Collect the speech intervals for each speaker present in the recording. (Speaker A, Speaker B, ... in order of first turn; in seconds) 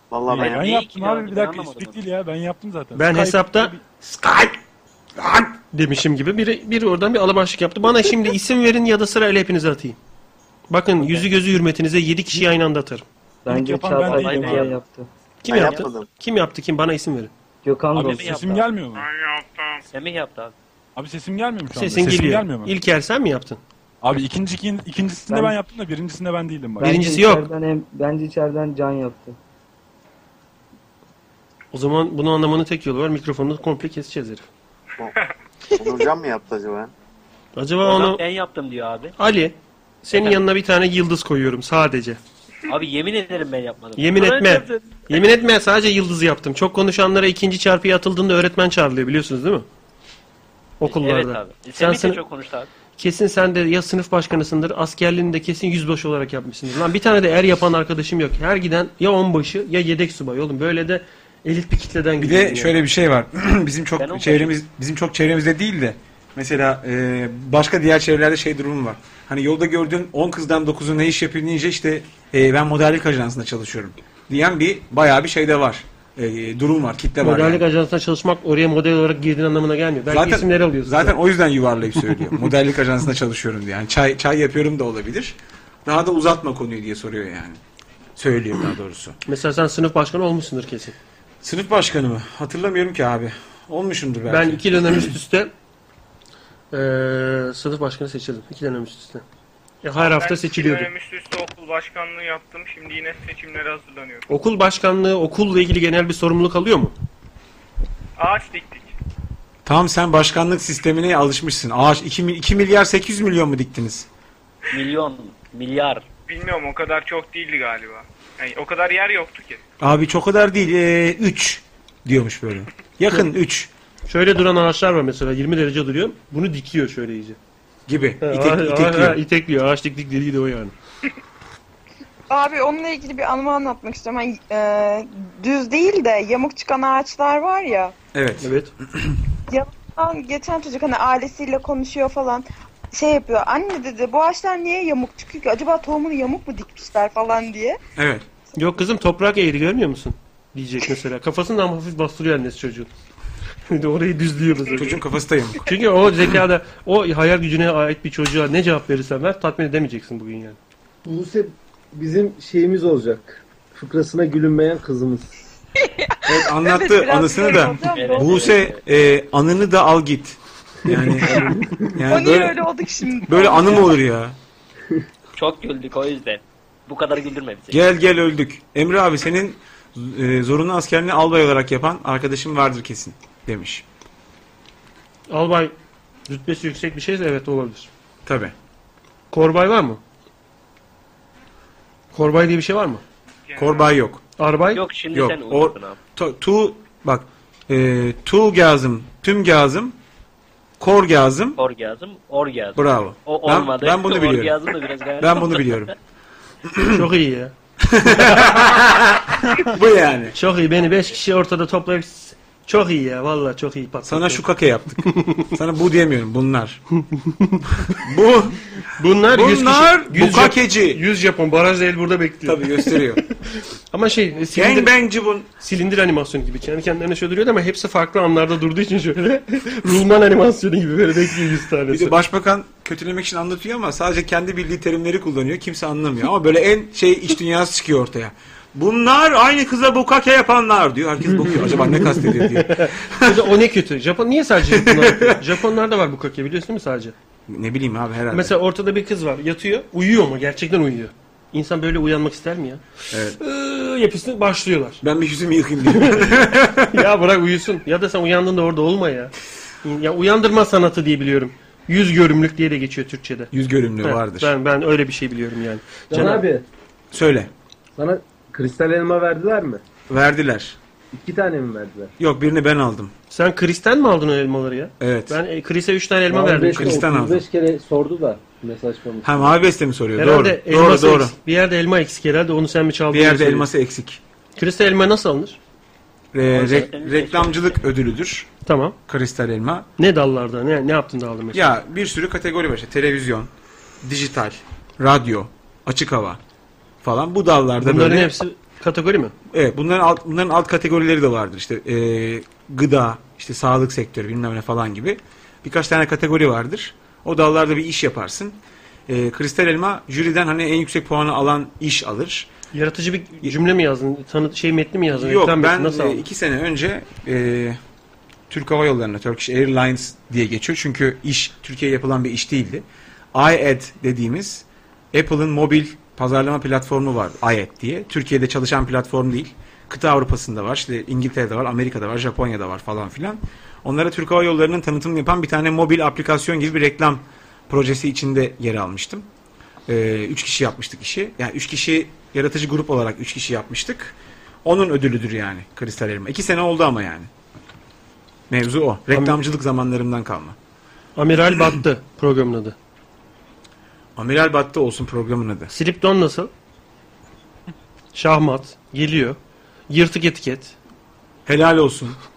Speaker A: 0.1-0.6, 15.5-16.1, 35.8-36.9
Speaker B: 0.3-4.4, 13.5-14.7, 17.9-19.1, 20.9-22.7, 24.0-26.9
Speaker C: 0.3-2.0, 13.9-14.8, 15.5-15.9, 18.0-18.6, 19.9-20.5, 37.8-39.1, 40.1-40.4, 42.7-45.2, 50.8-52.7, 64.0-64.5, 114.7-116.0, 167.8-168.8, 175.3-177.8, 194.7-196.0, 201.6-205.9, 286.4-287.8
Speaker D: 2.9-3.7, 5.7-10.0, 10.7-13.0, 15.4-17.3, 21.7-23.6, 26.8-27.5, 31.7-34.5, 37.5-38.2, 39.2-42.2, 44.0-49.6, 50.8-52.2, 53.0-62.8, 77.2-81.2, 89.2-91.0, 94.3-95.5, 96.7-99.2, 99.8-100.9, 104.3-106.9, 124.1-127.4, 128.2-130.7, 138.4-138.7, 148.6-152.9, 153.7-154.9, 155.6-160.6, 171.2-171.6, 185.3-185.7, 186.3-187.9, 189.3-190.0, 192.1-193.0, 194.4-194.8, 206.9-207.5, 210.3-214.5, 215.1-215.5, 217.2-217.9, 219.0-223.0, 223.9-225.0, 225.6-232.2, 241.5-247.1, 248.3-255.0, 255.8-256.2, 256.9-263.5, 264.0-266.4, 273.3-277.0, 280.2-283.7, 284.6-285.6, 288.6-288.9, 290.0-291.8, 297.8-299.3, 312.7-316.2, 349.1-349.4, 351.1-352.8, 355.7-356.5, 358.1-359.4, 359.9-360.8
Speaker E: 13.4-15.1, 17.6-18.6, 25.3-25.6, 26.8-29.4
Speaker F: 18.9-19.9, 100.0-104.3, 108.2-108.9, 116.3-119.6, 193.5-193.9
Speaker G: 62.2-77.6, 80.1-87.6, 88.2-89.2, 91.4-94.9, 109.6-114.1, 119.8-123.7, 127.9-129.2, 138.1-139.2, 147.9-148.3, 154.8-155.6, 166.2-172.6, 173.2-174.3, 177.7-183.8, 188.2-188.5, 193.6-194.2, 195.1-199.9, 200.8-201.6, 202.8-204.6, 205.2-205.9, 206.7-207.0, 207.8-210.3, 214.0-216.8, 217.8-218.6, 219.3-221.0, 222.4-223.2, 224.5-225.5, 231.9-243.4, 244.7-245.4, 247.5-248.5, 253.1-253.4, 255.0-257.0, 263.5-264.5, 267.1-267.5, 270.1-270.8, 272.2-273.1, 275.0-275.4, 276.7-277.4, 279.2-281.3, 283.1-284.2, 286.3-288.5, 289.1-289.9, 291.5-293.5, 294.0-296.4, 297.0-298.3, 299.5-312.5, 315.1-317.8, 318.5-339.3, 339.9-347.3, 348.5-350.6, 354.1-355.7, 361.4-362.2
Speaker H: 132.3-137.9, 139.5-147.8, 166.3-168.5, 172.1-174.0
Speaker I: 161.0-165.3, 266.1-266.6, 267.9-269.8, 271.1-272.1, 276.3-279.5